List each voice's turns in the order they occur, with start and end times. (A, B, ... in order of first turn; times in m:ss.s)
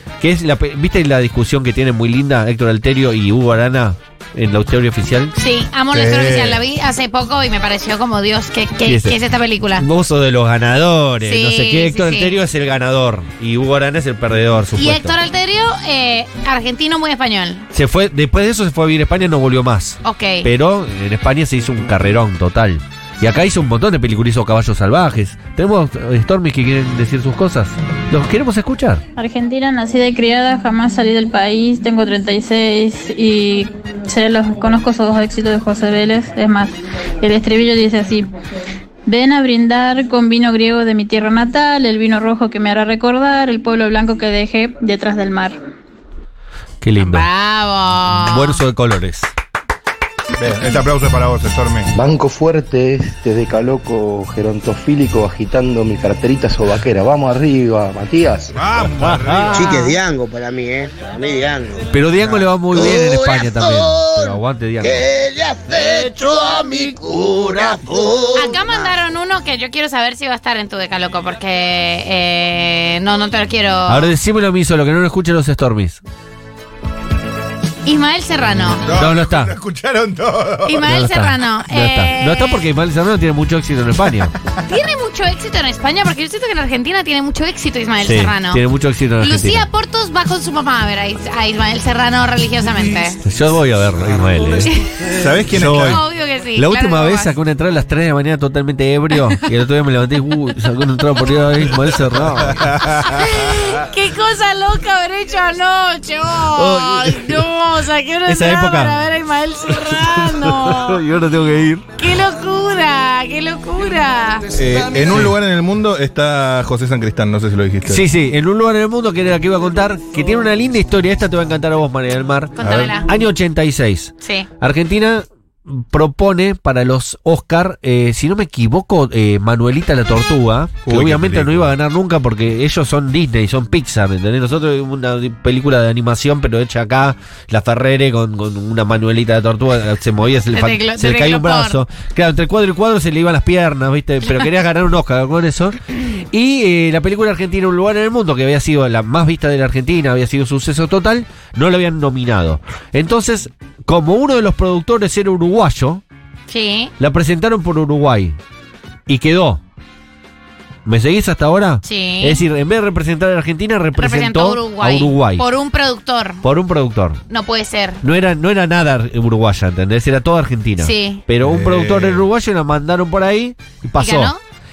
0:00.2-0:05.3 A
0:05.4-0:09.8 B
0:05.9-0:06.6 C
0:08.8-0:09.2 A
0:09.8-0:15.2 A
0:11.2-0:12.4 B
0:14.8-0:17.7 B
0:17.7-0:29.0 A
0:20.0-0:20.4 B
0:29.2-0:38.3 D
0:39.0-0:45.6 D
0:46.8-0:47.3 A
0:47.0-0:48.6 B
0:48.1-0:49.3 A
0:50.4-0:51.9 C
0:51.9-0:58.6 E
0:58.5-0:59.8 C
0:59.0-0:59.7 A
0:59.5-1:01.9 F
1:01.9-1:05.0 A
1:02.7-1:08.9 F
1:08.3-1:14.1 B
1:13.9-1:16.0 A
1:17.8-1:18.8 B
1:18.8-1:20.9 C
1:18.9-1:19.5 A
1:20.6-1:22.6 B
1:20.8-1:24.3 A
1:24.6-1:28.6 B
1:28.0-1:29.6 A
1:29.2-1:33.2 B
1:33.2-1:34.7 A
1:34.7-1:35.0 B
1:35.1-1:36.0 C
1:35.5-1:36.0 A
1:35.5-1:37.3 B
1:36.5-1:42.8 A
1:42.4-1:43.4 C
1:43.0-1:51.0 B
1:46.5-1:47.5 A
1:48.3-1:49.0 A
1:49.7-1:51.9 A
1:52.0-1:54.5 B
1:54.5-1:58.1 C
1:57.8-2:36.0 A
2:02.6-2:03.1 B
2:02.6-2:02.9 C
2:04.2-2:04.5 B
2:10.8-2:11.7 C
2:20.5-2:21.8 B
2:36.5-2:36.9 B
2:37.0-2:38.4 A
2:39.1-2:39.6 A
2:40.8-2:45.4 A
2:41.8-2:42.4 B
2:44.0-2:46.4 B
2:46.4-2:47.2 A
2:47.3-2:48.0 B
2:48.0-2:54.3 A
2:50.8-2:51.2 B
2:51.4-2:52.3 C
2:54.0-2:54.4 B